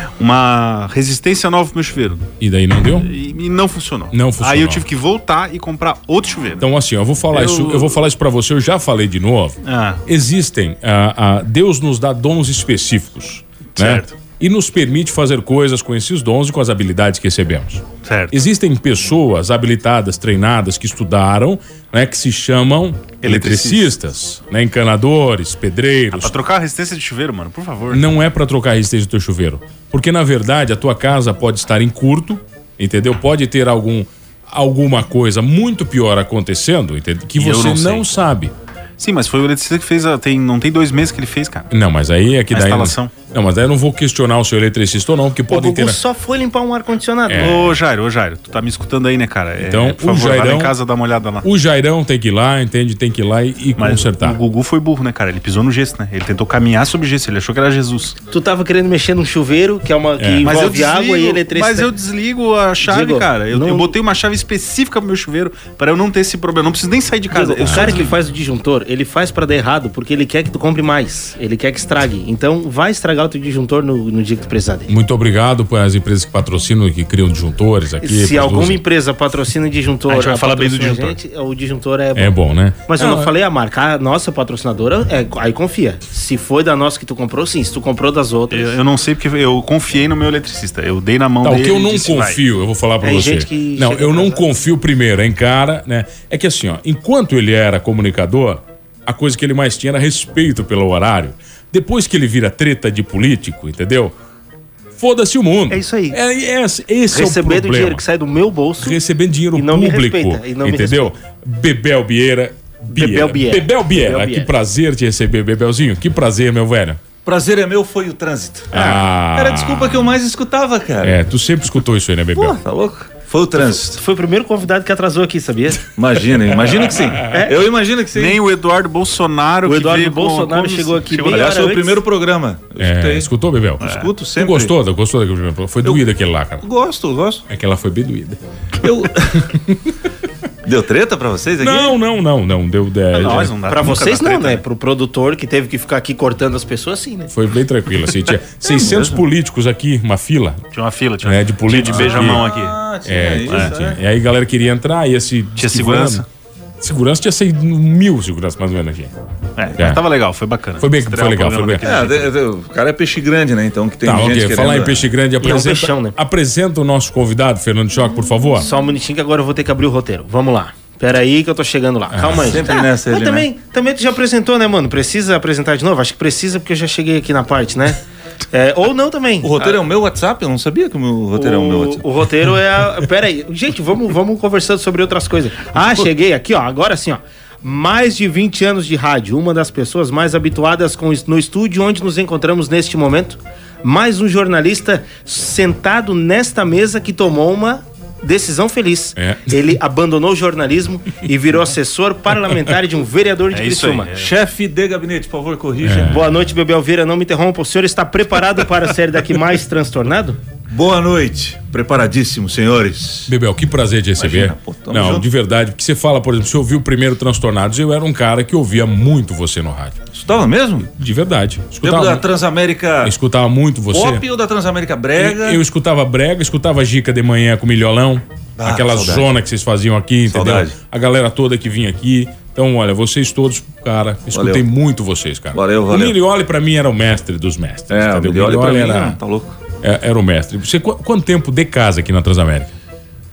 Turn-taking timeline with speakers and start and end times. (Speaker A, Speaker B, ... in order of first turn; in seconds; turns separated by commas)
Speaker A: 0.2-2.2, Speaker B: 2.4-3.1, Speaker A: 2.9-6.7, Speaker B: 4.1-4.8, Speaker B: 6.6-26.4, Speaker A: 7.3-8.0, Speaker A: 9.6-10.0, Speaker A: 13.8-14.2, Speaker A: 18.0-18.4, Speaker A: 23.2-23.9, Speaker A: 26.1-28.1, Speaker B: 27.9-38.5, Speaker A: 37.4-38.2, Speaker A: 39.0-41.7, Speaker B: 41.7-46.0, Speaker A: 42.5-43.1, Speaker C: 45.5-47.6, Speaker B: 47.3-47.8, Speaker A: 47.4-51.5, Speaker B: 49.6-50.7, Speaker B: 51.4-54.4, Speaker A: 53.8-58.2, Speaker C: 58.3-61.9, Speaker B: 60.2-60.5, Speaker A: 60.4-68.1, Speaker C: 62.8-64.0, Speaker C: 67.3-74.9, Speaker B: 67.7-68.0, Speaker B: 74.9-78.8, Speaker C: 78.0-82.3, Speaker A: 80.1-81.2, Speaker B: 82.2-83.3, Speaker C: 82.9-88.8, Speaker A: 88.5-92.4, Speaker B: 91.4-104.2, Speaker C: 93.0-94.5, Speaker B: 105.0-108.0, Speaker C: 105.7-106.2, Speaker C: 107.1-109.0, Speaker B: 108.8-117.0, Speaker C: 109.5-111.1, Speaker C: 112.9-114.5, Speaker D: 117.2-121.2, Speaker B: 118.7-120.2, Speaker B: 121.0-122.6, Speaker D: 122.3-124.0, Speaker C: 123.7-125.9, Speaker D: 126.0-128.4, Speaker C: 127.3-127.6, Speaker A: 128.1-131.5, Speaker C: 129.7-132.0, Speaker D: 131.2-133.3, Speaker B: 132.8-136.7, Speaker D: 133.8-134.8, Speaker D: 135.8-136.1, Speaker D: 136.6-137.4, Speaker B: 137.5-138.4, Speaker D: 138.8-139.5, Speaker D: 140.6-142.0, Speaker B: 141.6-143.5, Speaker A: 143.1-144.6, Speaker C: 143.7-147.3, Speaker B: 147.3-150.6, Speaker D: 148.6-149.3, Speaker A: 150.7-152.8, Speaker B: 151.2-152.5, Speaker D: 151.8-154.0, Speaker B: 153.1-156.2, Speaker A: 153.5-153.8, Speaker A: 155.6-156.2, Speaker B: 156.8-159.1, Speaker A: 159.6-162.3, Speaker B: 159.8-160.0, Speaker B: 160.8-161.9, Speaker D: 161.8-165.1, Speaker B: 164.0-168.7, Speaker C: 165.4-166.2, Speaker C: 168.6-178.0, Speaker B: 172.1-172.6, Speaker D: 172.3-173.5, Speaker C: 178.5-179.7, Speaker D: 179.4-182.1, Speaker C: 181.3-204.1, Speaker B: 199.2-199.5, Speaker A: 203.5-204.3, Speaker D: 204.2-206.2, Speaker B: 205.8-206.3, Speaker C: 205.9-210.4, Speaker D: 210.7-213.3, Speaker B: 213.3-220.0, Speaker D: 214.2-215.3, Speaker D: 220.1-220.9, Speaker B: 221.0-222.2, Speaker D: 221.8-223.2, Speaker B: 223.0-224.2, Speaker D: 223.9-225.6, Speaker B: 225.2-239.2, Speaker D: 228.6-229.3, Speaker D: 230.2-230.8, Speaker D: 234.3-234.7, Speaker D: 235.5-236.2, Speaker D: 237.9-239.6, Speaker B: 239.8-242.8